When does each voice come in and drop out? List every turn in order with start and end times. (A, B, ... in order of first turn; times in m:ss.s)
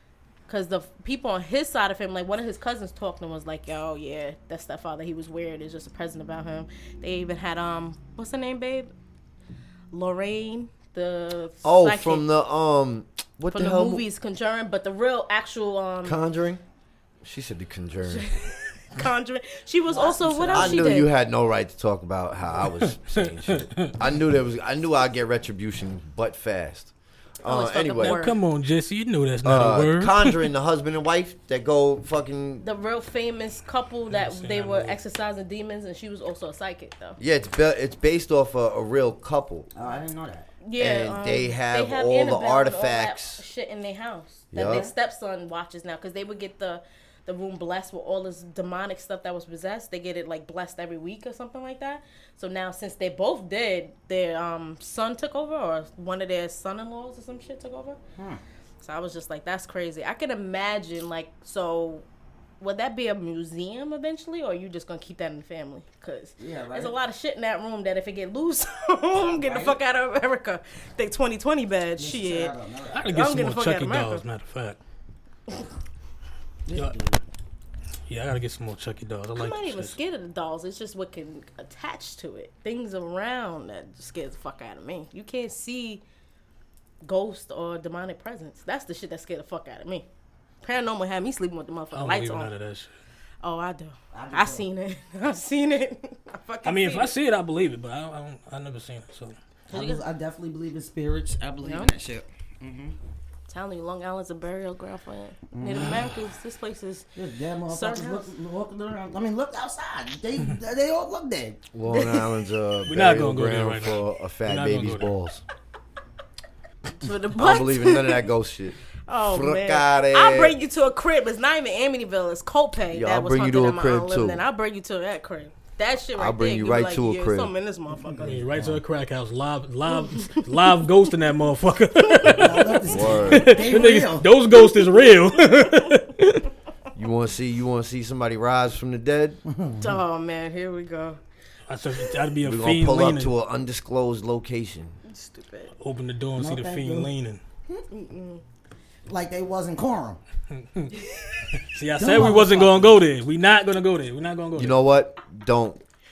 0:00.5-0:08.9 A
0:09.9-0:12.3 A
0:11.6-0:14.0 B
0:13.5-0:16.2 A
0:16.0-0:16.6 B
0:17.2-0:18.3 B
0:18.0-0:21.1 A
0:19.9-0:21.0 C
0:20.5-0:26.9 B
0:22.8-0:24.0 D
0:27.4-0:28.2 B
0:27.4-0:28.4 A
0:28.0-0:30.5 D
0:29.4-0:32.6 B
0:32.6-0:37.2 A
0:34.1-0:35.0 D
0:37.2-0:39.7 B
0:39.7-0:40.5 C
0:40.6-0:58.0 A
0:40.8-0:43.4 B
0:44.5-0:44.9 B
0:44.6-0:44.9 C
0:58.8-1:02.0 A
1:02.6-1:12.5 A
1:06.4-1:06.9 C
1:09.2-1:09.8 C
1:12.0-1:13.0 C
1:12.9-1:14.8 D
1:13.0-1:14.2 A
1:16.6-1:17.2 C
1:16.7-1:17.0 D
1:18.1-1:20.0 D
1:19.4-1:26.0 A
1:27.0-1:30.0 A
1:30.6-1:32.5 A
1:31.9-1:32.9 D
1:33.4-1:37.1 A
1:34.1-1:34.7 C
1:36.6-1:39.4 D
1:39.7-1:43.0 C
1:39.7-1:40.0 A
1:41.6-1:41.9 A
1:43.5-1:47.1 A
1:45.5-1:46.1 C
1:47.1-1:51.6 C
1:47.7-1:48.3 A
1:51.7-1:55.4 B
1:51.9-1:52.2 A
1:52.9-1:55.1 D
1:57.0-1:58.2 A
1:57.4-2:00.6 B
1:59.1-2:08.4 A
2:02.9-2:04.4 B
2:06.2-2:07.5 B
2:08.0-2:08.8 C
2:08.2-2:16.5 D
2:09.9-2:10.7 A
2:12.0-2:13.8 A
2:12.3-2:14.3 C
2:12.9-2:13.5 B
2:14.5-2:15.9 A
2:16.9-2:19.4 B
2:19.4-2:20.0 C
2:19.8-2:21.2 A
2:21.7-2:23.3 D
2:22.4-2:25.0 B
2:25.0-2:25.7 A
2:25.8-2:27.4 D
2:26.4-2:27.1 C
2:27.9-2:28.4 A
2:29.1-2:30.2 C
2:30.5-2:30.9 D
2:31.5-2:34.8 D
2:32.0-2:32.9 C
2:34.5-2:35.8 B